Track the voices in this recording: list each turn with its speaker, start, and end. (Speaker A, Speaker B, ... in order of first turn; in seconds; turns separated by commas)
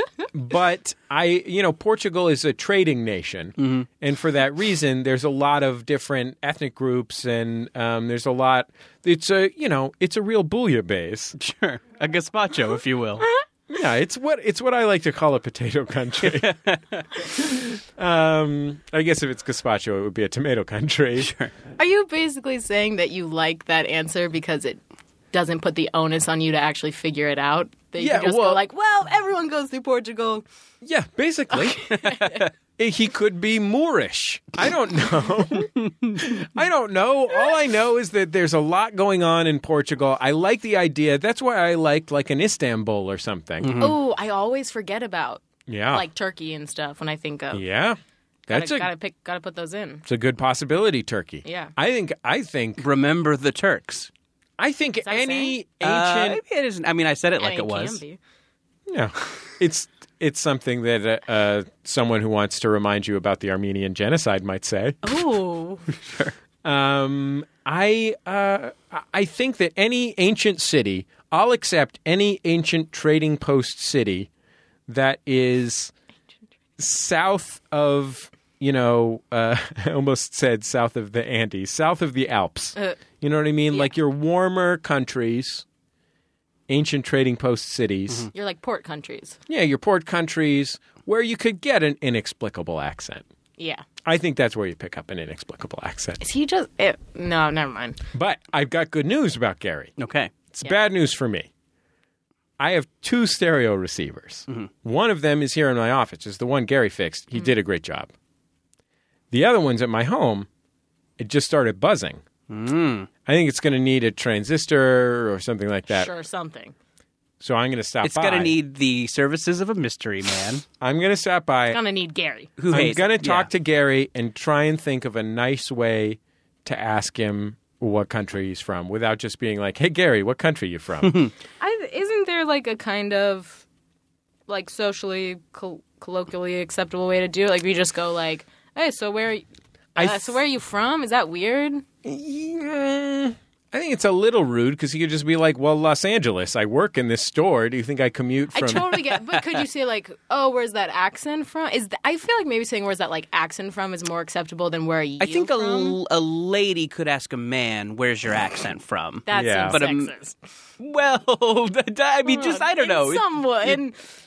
Speaker A: 0.3-11.3, Speaker B: 3.6-3.9, Speaker B: 11.4-13.3, Speaker A: 13.7-16.6, Speaker B: 16.2-17.0, Speaker A: 17.2-21.3, Speaker B: 21.2-21.5, Speaker C: 21.8-24.8, Speaker C: 25.3-30.4, Speaker A: 28.0-28.6, Speaker A: 30.8-32.0, Speaker C: 31.5-32.5, Speaker A: 32.8-43.8, Speaker B: 35.8-36.3, Speaker B: 43.6-43.9, Speaker C: 43.8-47.6, Speaker A: 45.7-46.0, Speaker A: 47.5-48.9, Speaker C: 48.5-50.0, Speaker A: 50.0-52.8, Speaker C: 51.4-51.7, Speaker B: 52.8-54.1, Speaker A: 54.6-56.4, Speaker C: 55.0-55.5, Speaker B: 55.8-58.0, Speaker C: 57.4-58.2, Speaker A: 58.9-65.2, Speaker C: 65.0-65.8, Speaker B: 66.0-66.3, Speaker A: 66.6-74.3, Speaker A: 74.9-75.9, Speaker A: 76.8-85.6, Speaker A: 86.7-88.3, Speaker C: 88.3-89.4, Speaker A: 89.5-93.2, Speaker C: 93.6-93.8, Speaker A: 94.0-96.2, Speaker C: 96.2-98.0, Speaker A: 98.1-99.9, Speaker B: 100.0-100.3, Speaker A: 100.5-101.5, Speaker A: 102.6-108.1, Speaker A: 109.3-110.5, Speaker A: 111.2-112.2, Speaker B: 112.5-113.1, Speaker A: 113.2-116.1, Speaker C: 115.9-116.7, Speaker A: 117.4-118.5, Speaker B: 118.0-120.6, Speaker A: 120.8-121.8, Speaker C: 121.7-122.5, Speaker B: 122.6-123.5, Speaker A: 122.7-131.2, Speaker B: 131.0-131.3, Speaker C: 131.6-133.6, Speaker C: 134.5-139.4, Speaker A: 139.9-140.4, Speaker C: 139.9-141.8, Speaker A: 142.0-148.9, Speaker C: 148.5-156.0, Speaker B: 155.2-160.1, Speaker C: 159.2-160.3, Speaker A: 159.3-159.8, Speaker B: 160.8-163.7, Speaker C: 162.2-164.0